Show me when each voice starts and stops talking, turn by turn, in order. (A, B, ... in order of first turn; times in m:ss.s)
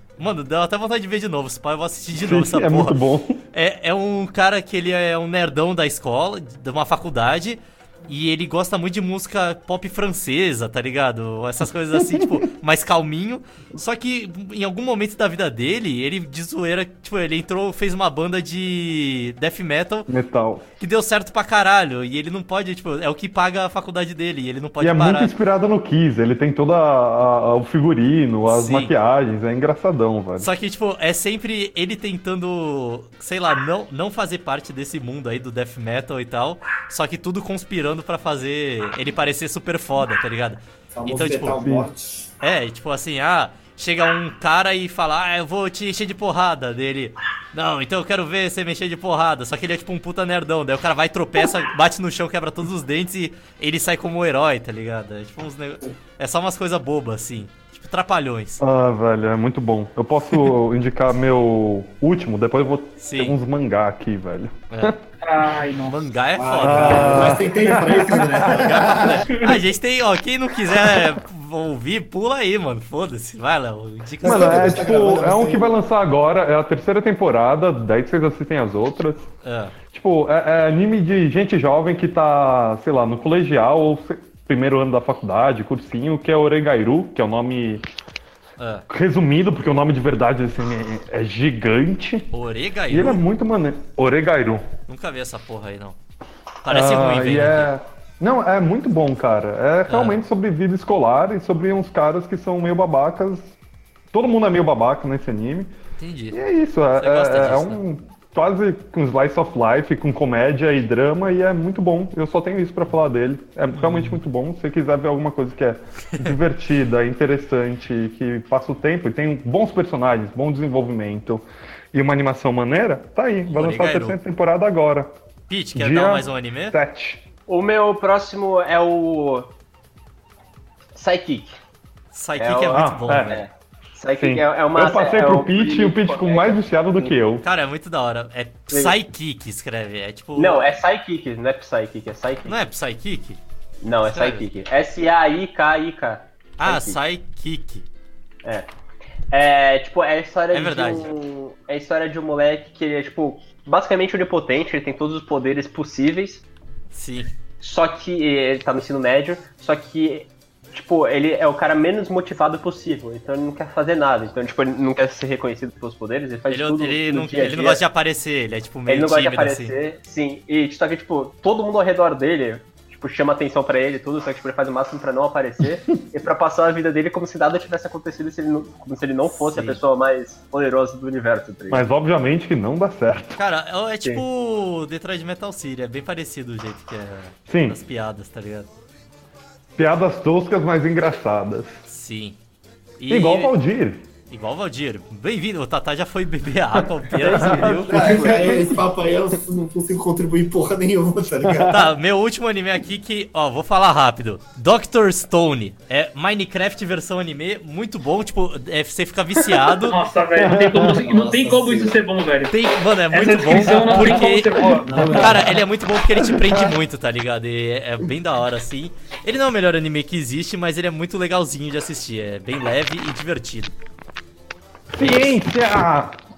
0:00.2-0:03.0 A
0:02.2-0:03.4 B
0:03.5-0:20.1 A
0:20.1-0:20.6 B
0:20.8-0:25.3 A
0:24.8-0:30.5 B
0:28.5-0:28.9 A
0:30.4-0:41.6 A
0:40.9-0:42.3 C
0:41.6-0:41.9 B
0:42.4-0:58.6 A
0:58.6-1:05.0 B
1:03.0-1:03.4 A
1:05.2-1:06.0 D
1:05.9-1:07.5 A
1:06.3-1:09.3 C
1:06.6-1:08.5 B
1:08.0-1:14.8 A
1:14.2-1:15.8 C
1:14.2-1:19.3 B
1:19.4-1:19.7 A
1:19.9-1:27.8 B
1:28.6-1:28.8 A
1:28.9-1:32.3 B
1:32.3-1:33.2 A
1:32.9-1:34.7 B
1:34.9-1:36.0 A
1:36.6-1:37.7 A
1:36.7-1:43.5 B
1:39.9-1:40.2 A
1:44.1-1:45.7 B
1:46.0-1:46.4 A
1:46.3-2:05.1 B
1:47.0-1:47.8 A
1:53.7-1:54.2 A
2:03.5-2:04.2 A
2:05.5-2:06.8 A
2:05.7-2:07.2 B
2:07.5-2:09.5 E
2:10.9-2:11.6 E
2:12.1-2:13.4 A
2:12.4-2:17.1 E
2:12.7-2:13.4 B
2:14.2-2:17.4 B
2:17.4-2:20.6 A
2:18.7-2:19.0 E
2:20.4-2:22.6 E
2:22.5-2:23.4 A
2:23.8-2:27.0 E
2:24.1-2:24.4 A
2:26.6-2:27.8 A
2:29.3-2:36.4 E
2:30.5-2:31.1 A
2:36.9-2:37.3 A
2:37.6-2:47.8 E
2:46.5-2:49.7 A
2:48.9-3:01.8 E
2:59.3-2:59.8 A
3:01.7-3:03.4 B
3:03.4-3:08.7 A
3:07.5-3:07.8 B
3:09.8-3:11.8 B
3:11.9-3:12.4 A
3:13.0-3:13.5 A
3:13.1-3:14.0 B
3:14.3-3:18.3 A
3:17.2-3:18.7 E
3:17.2-3:18.7 B
3:17.9-3:21.8 C
3:21.4-3:21.8 B
3:21.7-3:30.0 A
3:29.8-3:32.6 D
3:30.4-3:31.0 B
3:30.8-3:32.0 C
3:32.5-3:43.7 A
3:33.1-3:35.1 D
3:34.8-3:35.6 C
3:34.9-3:35.4 B
3:44.9-3:46.2 B